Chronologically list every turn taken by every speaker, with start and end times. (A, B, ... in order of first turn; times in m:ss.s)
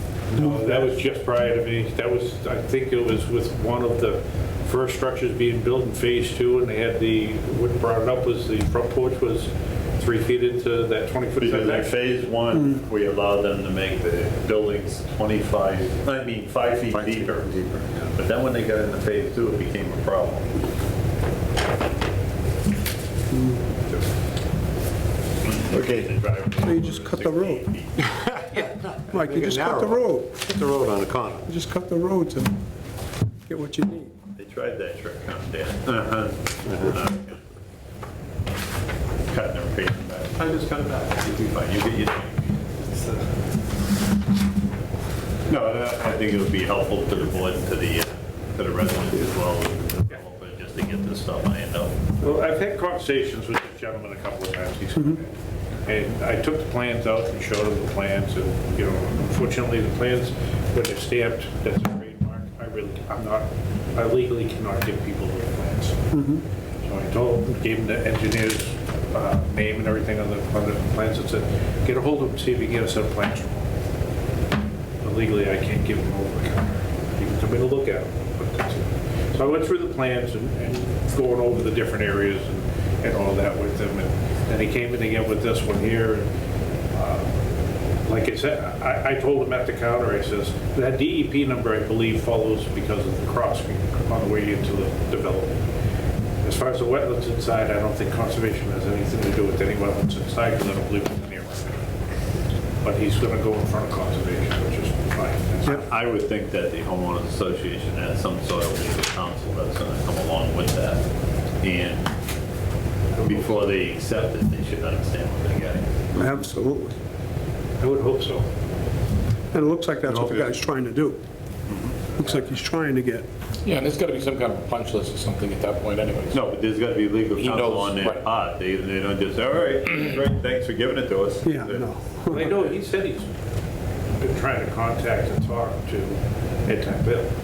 0:00.3-0:11.9 A
0:00.4-0:00.9 B
0:11.4-0:17.5 C
0:16.9-0:18.1 D
0:18.1-0:20.6 C
0:23.3-0:23.6 B
0:25.4-0:28.4 C
0:25.7-0:26.1 D
0:26.6-0:27.6 B
0:28.1-0:31.5 D
0:29.0-0:30.4 B
0:31.5-0:32.6 B
0:33.5-0:34.1 B
0:34.4-0:37.4 C
0:36.7-0:36.9 D
0:39.3-0:42.8 C
0:45.5-0:52.0 C
0:52.2-0:55.3 A
0:55.8-1:06.0 A
1:06.1-1:06.4 B
1:06.8-1:13.7 A
1:15.0-1:26.3 A
1:26.9-1:27.3 A
1:28.1-1:35.6 A
1:36.4-1:41.8 A
1:42.8-1:45.9 A
1:45.7-1:51.0 C
1:51.6-1:52.1 C
1:53.2-1:55.9 C
1:56.2-1:57.0 B
1:57.8-1:58.5 A
1:59.5-2:01.2 B
2:00.2-2:00.5 C
2:02.2-2:03.3 B
2:03.7-2:06.4 E
2:06.3-2:11.8 C
2:07.4-2:08.2 E
2:11.4-2:12.5 B
2:12.3-2:13.3 A
2:14.2-2:17.3 A